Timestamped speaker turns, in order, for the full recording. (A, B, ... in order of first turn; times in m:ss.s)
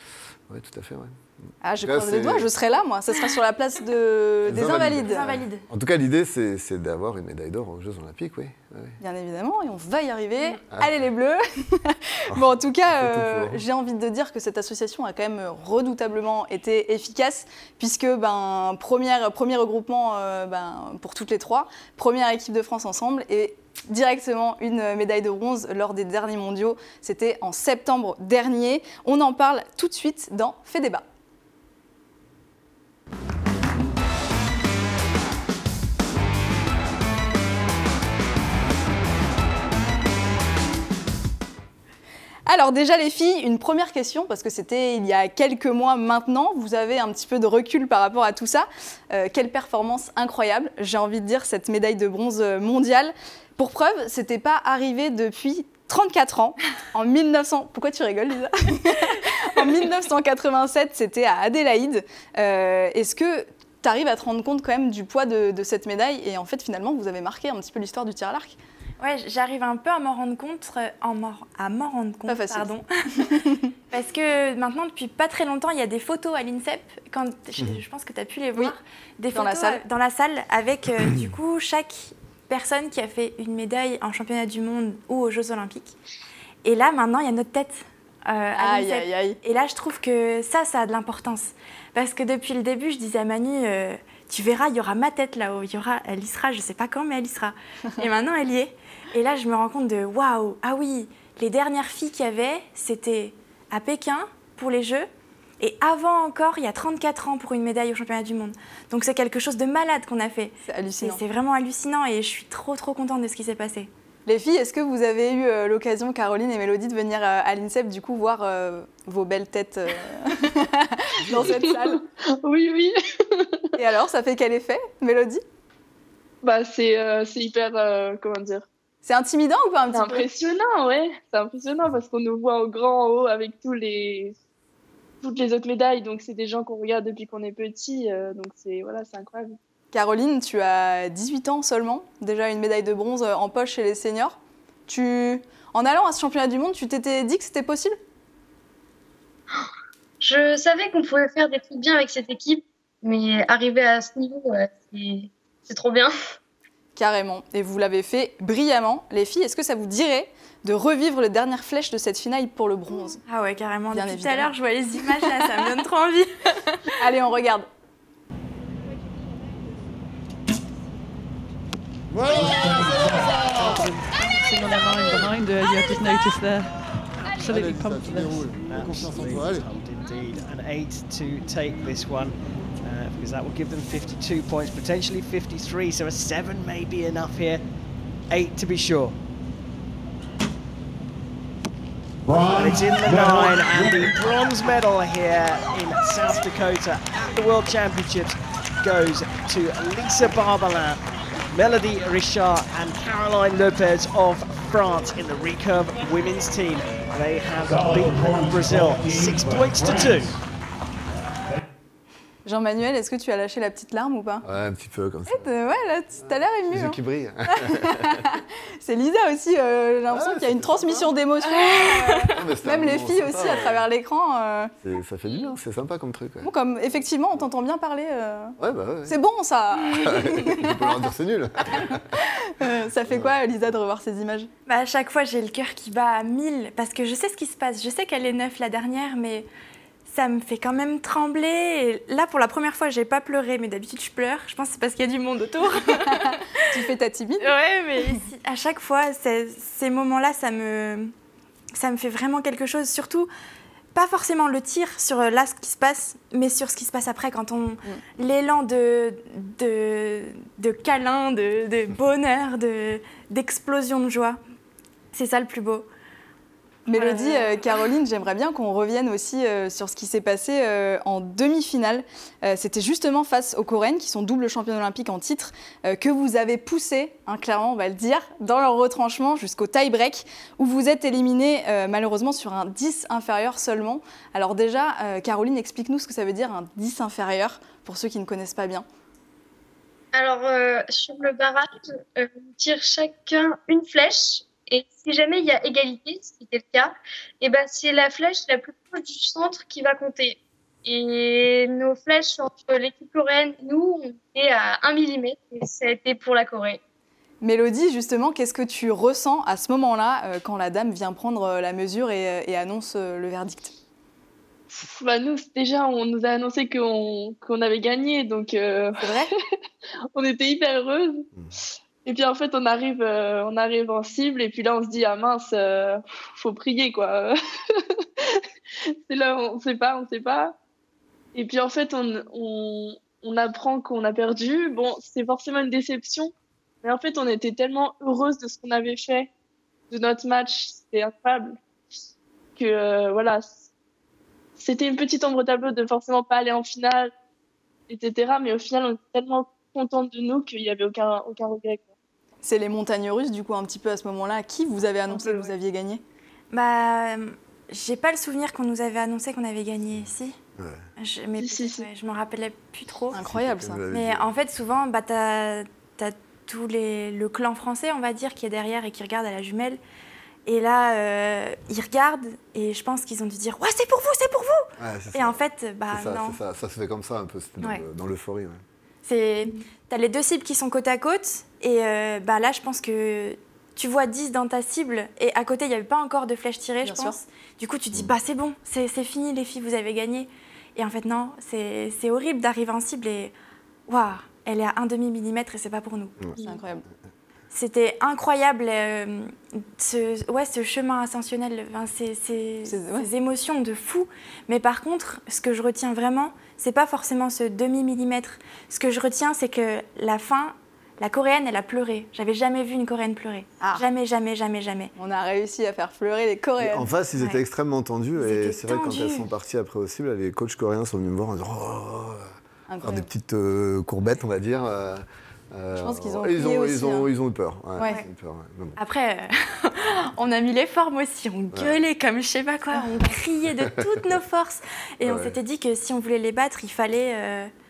0:00.5-0:01.2 A
0:01.6-0:05.2 B
0:01.8-0:02.5 A
0:04.4-0:09.0 A
0:04.6-0:05.6 C
0:09.0-0:31.0 B
0:12.3-0:13.6 A
0:42.4-1:08.6 B
1:09.0-1:13.4 C
1:12.3-1:13.7 B
1:13.9-1:25.9 C
1:19.3-1:19.8 B
1:26.6-1:45.1 C
1:28.6-1:29.4 B
1:45.6-1:53.9 C
1:50.6-1:51.2 B
1:54.2-2:02.0 B
2:01.3-2:03.7 D
2:03.8-2:05.4 B
2:06.4-2:08.7 D
2:09.0-2:10.3 B
2:09.9-2:14.3 D
2:15.2-2:19.6 D
2:19.9-2:28.0 B
2:30.2-2:36.1 E
2:37.0-2:43.2 B
2:43.3-2:46.9 C
2:43.9-2:44.5 B
2:45.1-2:45.6 B
2:47.0-2:47.7 B
2:52.6-2:56.7 F
2:57.3-2:58.5 F
2:57.5-2:59.6 A
2:58.5-3:07.6 G
3:08.3-3:09.2 G
3:12.3-3:21.0 G
3:21.5-3:30.4 G
3:32.4-3:34.4 B
3:34.4-3:35.5 A
3:35.3-3:37.0 B
3:36.7-3:38.4 A
3:37.5-3:44.7 B
3:40.1-3:41.1 A
3:41.6-3:42.4 C
3:42.3-3:43.8 A
3:44.8-3:46.5 A
3:46.4-3:50.8 B
3:48.6-3:49.2 A
3:49.9-3:52.2 A
3:51.7-3:54.5 B
3:53.1-3:53.3 A
3:54.7-3:59.5 C
4:00.1-4:06.7 C
4:06.0-4:07.5 B
4:07.4-4:11.1 C
4:11.7-4:13.3 C
4:13.9-4:24.4 C
4:25.1-4:25.9 C
4:26.9-4:48.8 B
4:26.9-4:27.8 C
4:50.1-5:06.8 E
5:07.4-5:13.7 B
5:14.7-5:19.2 D
5:19.0-5:19.3 B
5:20.1-5:21.3 D
5:22.0-5:28.4 D
5:29.1-5:30.6 D
5:31.3-5:39.3 D
5:39.9-5:41.6 D
5:42.6-5:43.6 D
5:44.6-5:47.1 D
5:47.9-5:51.9 D
5:52.4-5:56.0 B
5:55.1-5:55.5 D
5:56.5-6:00.4 C
6:00.6-6:00.8 A
6:01.0-6:03.2 C
6:01.4-6:01.9 D
6:03.1-6:03.8 B
6:03.1-6:04.3 A
6:03.9-6:09.8 C
6:10.4-6:16.4 C
6:14.8-6:18.6 A
6:19.0-6:33.3 C
6:26.8-6:27.2 B
6:33.9-6:36.5 C
6:36.4-6:36.8 B
6:37.5-6:54.9 C
6:42.6-6:43.1 B
6:55.0-6:56.9 B
6:56.6-7:02.2 A
6:58.2-6:59.3 C
7:02.7-7:03.1 B
7:02.8-7:08.8 A
7:05.8-7:07.1 B
7:08.8-7:17.5 C
7:11.5-7:11.8 A
7:13.6-7:13.9 A
7:15.0-7:15.4 A